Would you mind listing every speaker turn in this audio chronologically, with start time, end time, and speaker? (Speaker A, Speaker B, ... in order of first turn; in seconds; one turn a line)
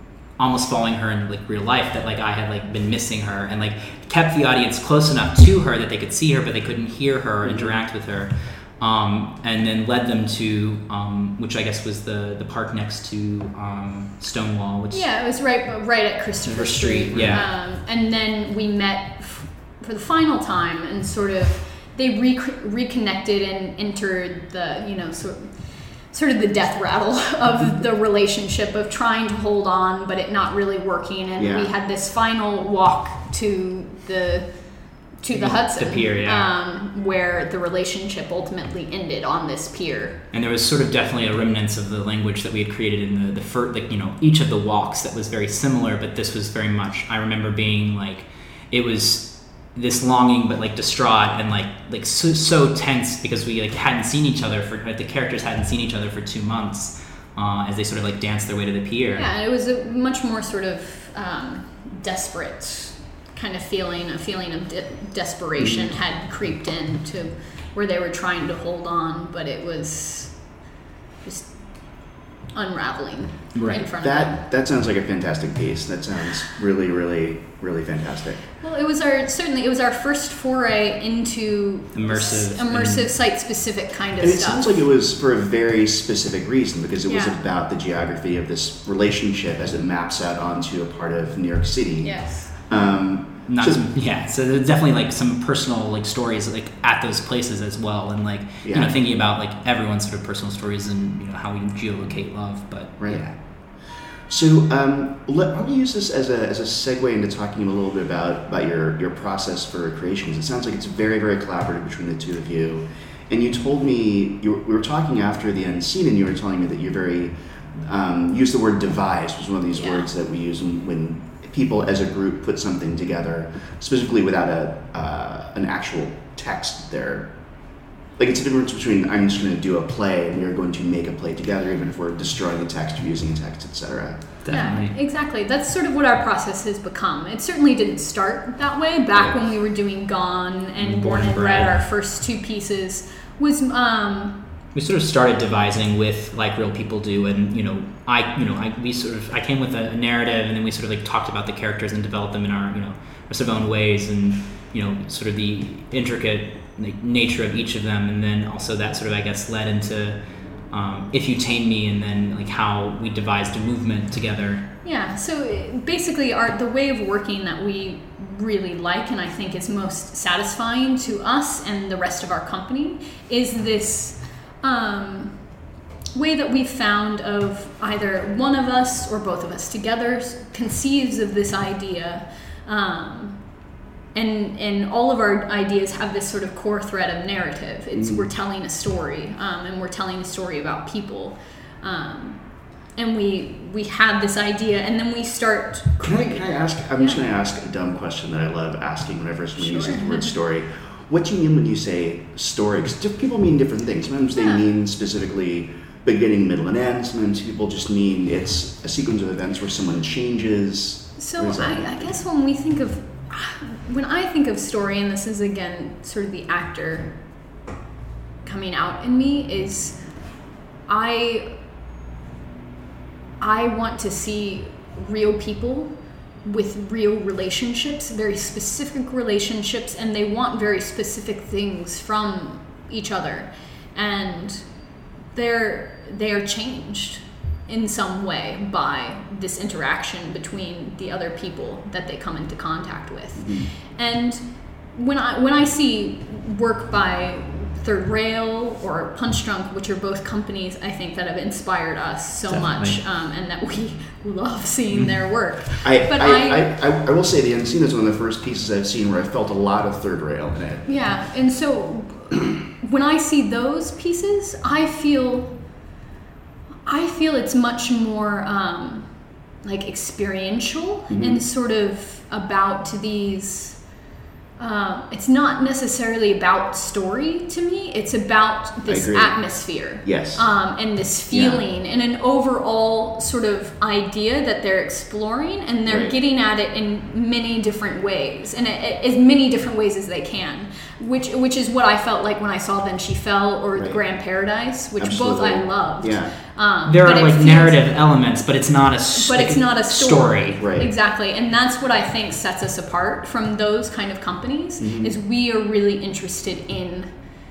Speaker A: 0.4-15.1
Speaker B: 7.4-7.8
Speaker C: 14.9-25.5
Speaker A: 16.5-17.5
Speaker C: 26.1-34.6
Speaker B: 31.4-31.7
Speaker C: 35.2-40.2
Speaker A: 35.3-36.5
Speaker A: 40.3-59.3
Speaker C: 59.2-70.4
Speaker B: 65.6-65.9
Speaker C: 71.2-71.7
Speaker C: 72.5-74.4
Speaker A: 73.5-73.8
Speaker B: 73.7-78.4
Speaker C: 78.6-84.8
Speaker A: 81.9-83.1
Speaker B: 84.2-93.8
Speaker C: 87.1-87.4
Speaker C: 92.0-92.6
Speaker A: 93.5-103.3
Speaker B: 98.6-98.9
Speaker B: 103.0-103.4
Speaker B: 104.3-127.3
Speaker C: 119.7-120.1
Speaker B: 128.2-134.4
Speaker A: 134.4-134.9
Speaker C: 134.5-144.4
Speaker A: 140.8-141.8
Speaker A: 144.8-160.2
Speaker A: 160.7-164.7
Speaker C: 164.8-175.4
Speaker C: 176.2-183.4
Speaker C: 184.2-196.4
Speaker B: 187.9-188.3
Speaker B: 196.0-212.1
Speaker C: 197.0-197.2
Speaker C: 199.6-200.3
Speaker C: 204.3-204.7
Speaker C: 211.2-217.2
Speaker C: 218.4-220.0
Speaker C: 220.9-221.5
Speaker C: 223.4-225.9
Speaker C: 226.4-234.7
Speaker C: 235.3-256.7
Speaker B: 243.4-243.7
Speaker A: 252.5-253.0
Speaker B: 255.8-260.9
Speaker C: 260.9-265.5
Speaker C: 266.9-273.8
Speaker B: 271.1-271.4
Speaker C: 274.6-297.9
Speaker B: 278.9-279.4
Speaker B: 280.0-280.4
Speaker B: 281.3-281.6
Speaker B: 285.9-286.1
Speaker B: 293.8-294.0
Speaker B: 295.0-296.3
Speaker A: 296.9-300.6
Speaker C: 299.1-307.1
Speaker B: 300.6-300.9
Speaker B: 304.8-305.1